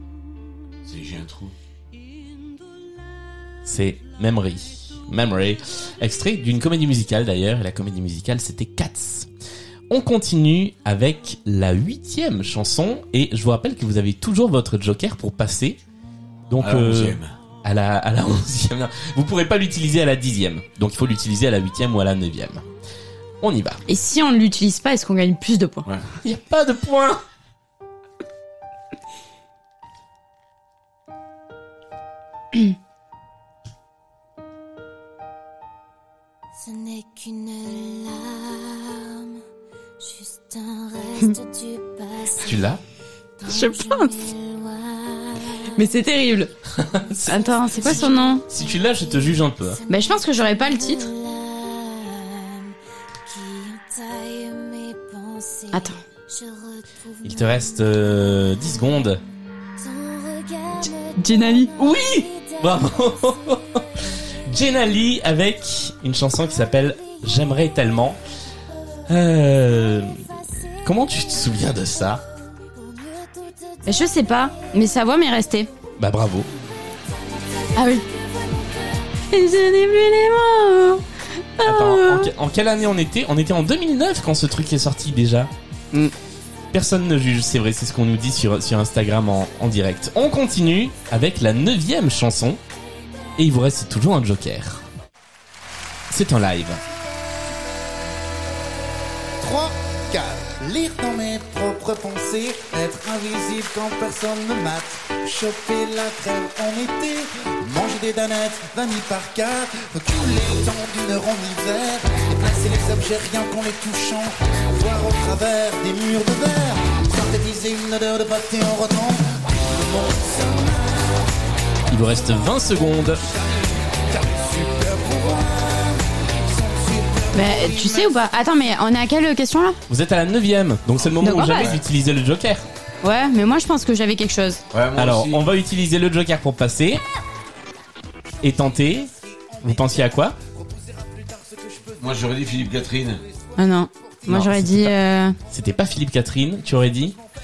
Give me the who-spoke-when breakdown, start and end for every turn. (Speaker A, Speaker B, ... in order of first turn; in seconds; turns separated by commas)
Speaker A: 0.8-1.5, Speaker B: 3.6-9.3, Speaker B: 9.9-15.8, Speaker B: 16.5-22.6, Speaker A: 16.6-17.3, Speaker B: 23.4-23.8, Speaker C: 23.9-25.9, Speaker B: 26.2-27.2, Speaker C: 36.7-39.3, Speaker D: 37.6-37.9, Speaker C: 40.7-41.5, Speaker D: 41.0-41.9, Speaker B: 42.3-42.8, Speaker C: 43.4-46.5, Speaker D: 43.7-44.5, Speaker B: 46.7-49.8, Speaker C: 47.2-48.5, Speaker C: 49.9-52.6, Speaker C: 53.3-56.0, Speaker B: 57.2-59.2, Speaker C: 59.9-61.7, Speaker B: 61.8-68.2, Speaker B: 69.1-70.2, Speaker B: 70.7-72.2, Speaker C: 73.8-75.7, Speaker B: 76.0-76.5, Speaker C: 77.7-78.0, Speaker C: 79.3-81.0, Speaker C: 81.6-81.9, Speaker B: 81.6-85.5, Speaker D: 81.9-82.2, Speaker B: 86.7-92.6, Speaker B: 93.4-94.8, Speaker B: 96.1-96.8, Speaker E: 99.4-121.1, Speaker B: 121.9-123.2, Speaker E: 123.2-126.0, Speaker E: 126.5-128.1, Speaker C: 127.3-129.8, Speaker B: 129.9-132.6, Speaker D: 131.2-131.7, Speaker A: 131.5-131.8, Speaker C: 133.0-134.6, Speaker A: 134.7-135.4, Speaker B: 134.9-137.0, Speaker B: 138.4-140.4, Speaker E: 140.7-142.0, Speaker A: 142.0-143.2, Speaker C: 143.6-145.4, Speaker B: 144.2-144.9, Speaker B: 145.5-147.2